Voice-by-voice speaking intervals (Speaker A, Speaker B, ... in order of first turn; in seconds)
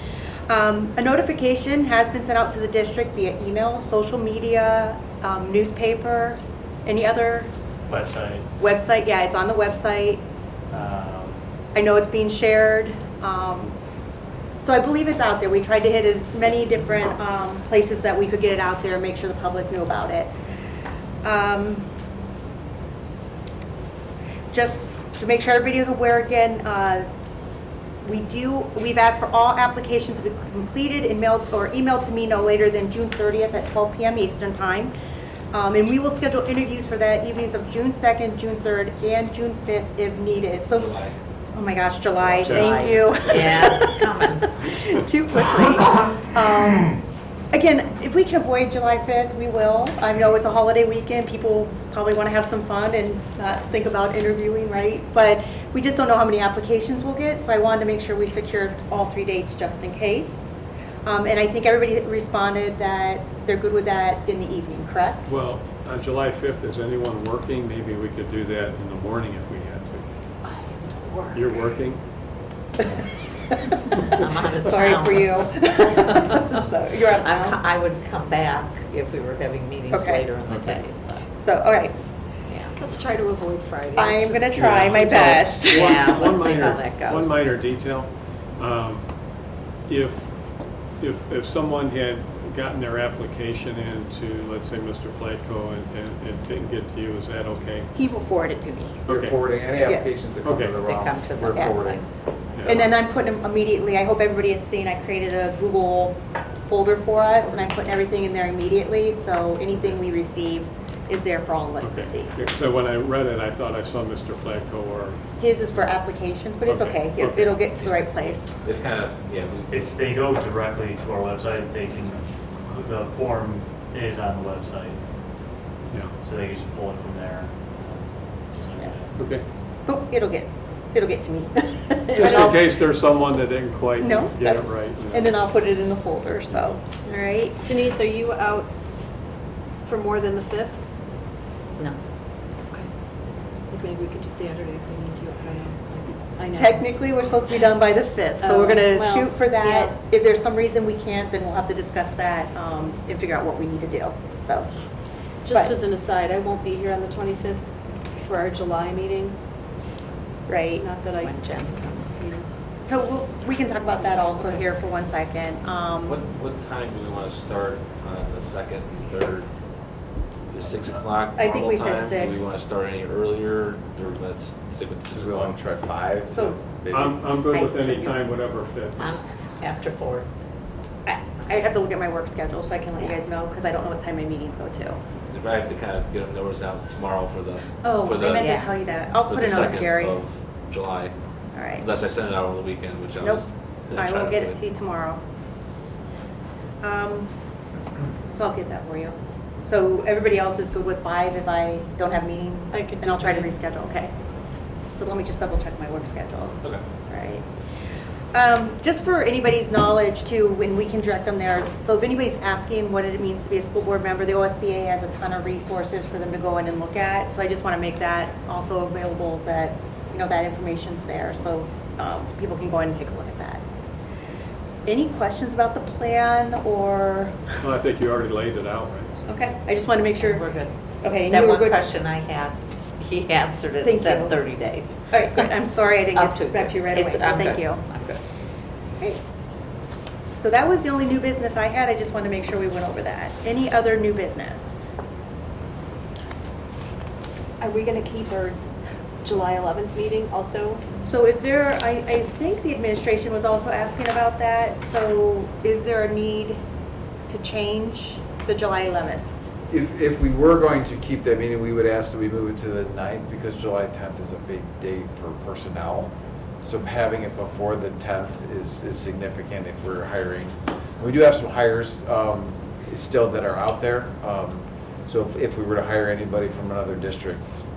Speaker A: 0.5-7.5, 8.6-10.2, 11.7-13.8, 14.6-20.3, 21.2-21.9, 24.5-27.1, 28.0-34.9, 35.5-40.9, 41.5-47.0, 47.5-60.5, 61.0-65.3, 73.5-73.8, 74.6-77.6, 79.9-80.2, 81.4-82.0, 84.0-86.1, 98.0-99.0, 102.7-112.3, 115.4-118.5, 129.9-132.7, 134.0-137.6, 146.5-154.7, 155.5-155.8, 160.5-160.8, 162.8-166.2, 171.4-172.6, 176.3-176.6, 177.5-178.2, 181.1-185.0, 188.0-190.2, 191.5-191.8, 193.2-195.2, 196.8-197.3, 198.3-204.1, 204.9-207.4, 208.3-223.6, 224.9-227.6, 229.3-230.4, 231.0-231.8, 233.8-234.4, 235.1-237.8, 240.3-244.9, 251.1-256.6, 257.3-259.3
Speaker B: 7.9-8.5, 10.7-11.4, 119.7-125.0, 126.2-129.2
Speaker C: 40.7-41.2, 118.6-120.0, 166.1-169.5, 170.5-175.7, 185.3-188.5, 189.1-191.1, 191.8-194.6
Speaker D: 42.4-44.5, 70.5-71.5, 74.1-76.5, 77.2-81.2, 82.5-82.7, 85.7-87.4, 100.8-102.4, 161.2-162.2, 179.0-180.3, 188.3-188.7, 230.2-230.7, 231.3-235.5, 236.1-238.2
Speaker E: 42.5-42.7, 65.3-70.0, 71.3-72.0, 84.5-89.1, 89.9-90.3, 91.0-97.9, 99.0-99.4, 100.4-100.8, 102.6-102.9, 111.8-116.0, 116.6-118.0, 129.2-129.4, 132.1-135.4, 176.9-179.1, 227.6-229.2
Speaker F: 80.5-80.8, 99.1-102.1, 102.6-102.9, 175.1-177.2, 259.7-277.4
Speaker G: 82.8-85.3, 137.6-138.7, 139.8-140.8, 143.7-146.9, 148.4-149.9, 155.4-157.7, 158.2-159.4, 160.8-161.3, 162.2-162.5, 164.2-164.6, 202.7-203.6, 247.6-248.6, 249.2-250.8